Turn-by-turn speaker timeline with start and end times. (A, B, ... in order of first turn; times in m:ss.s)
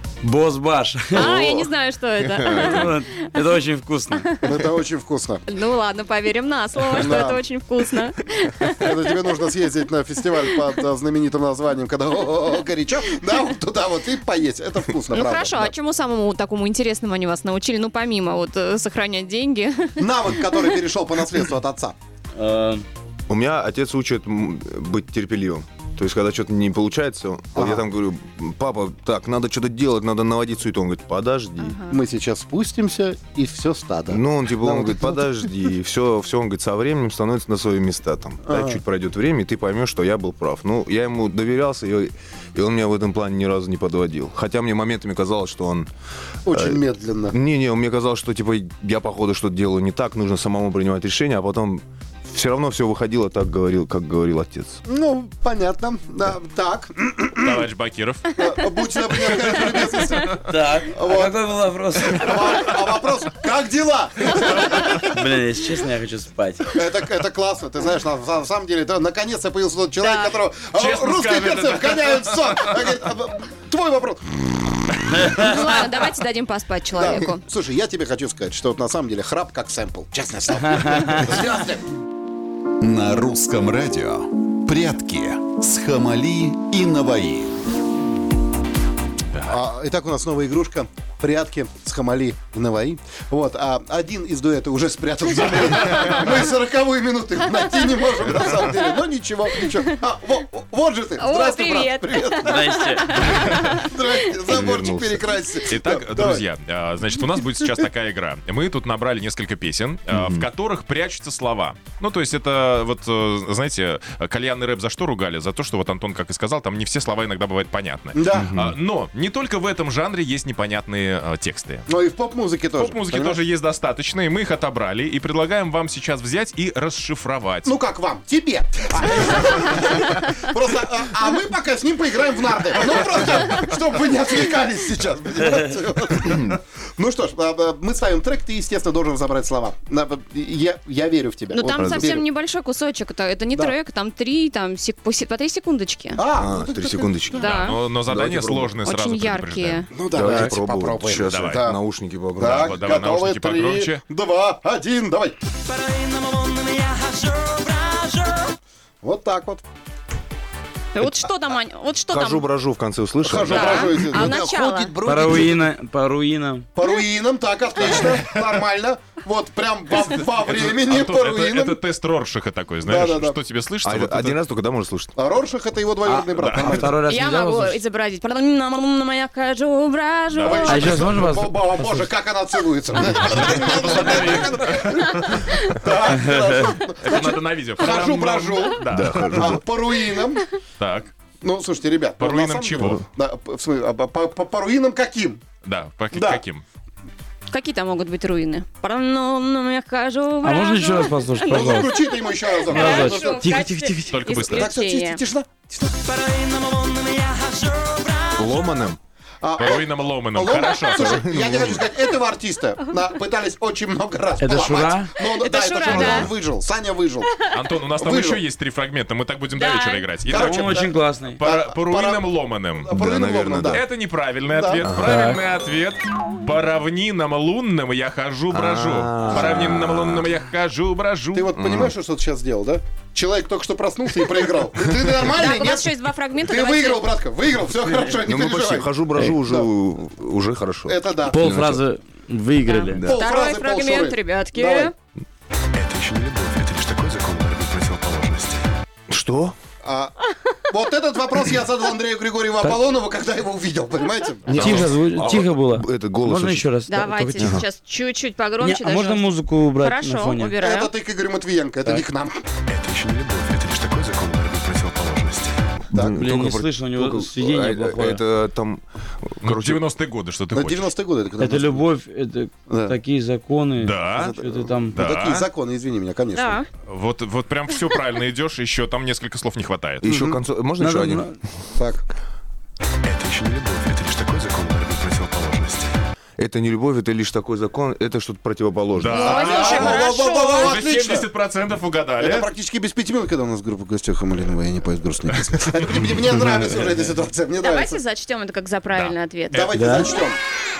0:00.2-0:01.3 A
0:01.1-0:03.0 B
0:01.2-0:01.6 C
0:02.2-0:02.7 D
0:02.5-0:04.3 A
0:04.2-0:04.6 B
0:04.4-0:05.4 C
0:05.5-0:09.1 B
0:06.9-0:07.4 C
0:08.6-0:15.7 C
0:15.1-0:20.0 B
0:20.0-0:21.9 C
0:22.4-0:22.8 A
0:23.3-0:31.8 D
0:27.5-0:27.8 C
0:31.6-0:32.0 B
0:31.9-0:35.3 C
0:34.1-0:45.9 D
0:38.4-0:38.8 C
0:46.4-0:47.4 C
0:46.5-0:54.8 D
0:54.9-0:57.7 C
0:57.4-0:58.3 E
0:58.4-1:01.4 C
1:00.4-1:02.6 A
1:02.0-1:05.2 C
1:04.9-1:06.7 A
1:06.7-1:15.8 C
1:10.0-1:10.3 B
1:10.7-1:12.9 E
1:15.3-1:17.4 B
1:16.9-1:21.9 C
1:22.8-1:27.5 F
1:29.4-1:46.4 C
1:41.2-1:43.8 B
1:42.4-1:43.2 A
1:44.4-1:45.3 D
1:45.7-2:01.9 E
1:50.1-1:50.5 D
1:58.1-1:58.5 C
1:58.3-1:58.8 D
2:01.9-2:03.4 C
2:02.8-2:07.7 E
2:07.6-2:22.2 C
2:16.2-2:16.6 D
2:21.5-2:26.2 B
2:21.7-2:22.2 D
2:26.2-2:27.4 C
2:26.3-2:28.8 D
2:27.3-2:27.8 B
2:27.4-2:29.9 E
2:28.8-2:29.9 B
2:29.9-2:31.8 C
2:30.1-2:32.8 D
2:31.3-2:31.7 E
2:32.4-2:35.4 C
2:32.4-2:34.0 E
2:35.7-2:38.5 G
2:39.0-2:39.6 C
2:40.9-2:42.5 B
2:42.1-2:44.1 D
2:43.2-2:45.6 C
2:43.4-2:45.0 B
2:45.0-2:46.7 A
2:46.8-2:51.8 C
2:47.9-2:48.5 E
2:49.9-2:54.4 E
2:52.8-2:53.4 C
2:53.8-2:55.1 D
2:55.2-2:57.0 C
2:56.0-2:57.8 A
2:56.4-2:56.8 E
2:57.0-3:01.1 B
3:00.3-3:00.8 E
3:00.4-3:10.5 C
3:00.6-3:02.1 A
3:03.0-3:05.5 E
3:06.1-3:06.7 A
3:07.0-3:09.6 E
3:08.8-3:09.6 D
3:10.8-3:11.1 E
3:11.4-3:15.4 C
3:12.2-3:13.0 E
3:15.6-3:16.6 E
3:16.1-3:16.4 C
3:17.5-3:25.2 B
3:20.4-3:21.9 A
3:21.5-3:23.5 C
3:22.7-3:24.2 A
3:24.1-3:24.7 E
3:24.5-3:25.9 C
3:25.9-3:28.6 G
3:28.4-3:29.0 D
3:29.4-3:37.4 C
3:29.6-3:31.2 E
3:30.9-3:31.9 D
3:34.4-3:35.1 A
3:35.2-3:36.3 B
3:35.9-3:36.2 D
3:37.5-3:40.9 E
3:37.9-3:38.4 C
3:39.6-3:40.1 B
3:40.2-3:42.3 C
3:40.3-3:41.4 A
3:41.4-3:42.9 E
3:42.8-3:43.8 C
3:42.9-3:43.8 D
3:43.7-3:51.5 E
3:44.5-3:44.9 C
3:44.8-3:45.3 D
3:45.0-3:45.4 A
3:48.5-3:50.3 D
3:49.3-3:49.6 C
3:51.3-3:59.7 C
3:51.6-3:51.9 D
3:55.2-3:57.1 B
3:58.2-4:01.8 D
4:00.8-4:01.4 C
4:01.3-4:03.0 A
4:02.7-4:04.9 B
4:02.9-4:03.2 D
4:03.0-4:04.9 C
4:05.7-4:08.6 F
4:09.1-4:09.6 D
4:09.8-4:10.2 C
4:10.7-4:14.8 C
4:14.5-4:16.7 D
4:14.5-4:17.6 A
4:16.9-4:20.9 B
4:17.4-4:17.6 D
4:18.6-4:20.6 A
4:20.6-4:22.4 C
4:22.7-4:25.7 F
4:25.9-4:29.8 D
4:25.9-4:26.2 C
4:26.0-4:28.2 A
4:29.4-4:30.9 E
4:30.5-4:31.8 C
4:31.4-4:35.0 A
4:32.7-4:33.0 C
4:33.8-4:34.4 E
4:34.2-4:36.6 C
4:34.9-4:35.5 E
4:36.3-4:36.7 B
4:36.8-4:40.0 E
4:40.0-4:41.3 D
4:40.0-4:40.4 C
4:40.8-4:41.4 A
4:41.8-4:42.0 C
4:43.0-4:46.0 F
4:46.4-4:49.4 D
4:49.0-4:52.5 E
4:49.1-4:50.8 B
4:49.1-4:51.3 C
4:52.2-4:58.0 C
4:57.6-4:59.7 B
4:58.9-4:59.7 E
4:59.5-5:00.4 C
4:59.7-5:00.1 A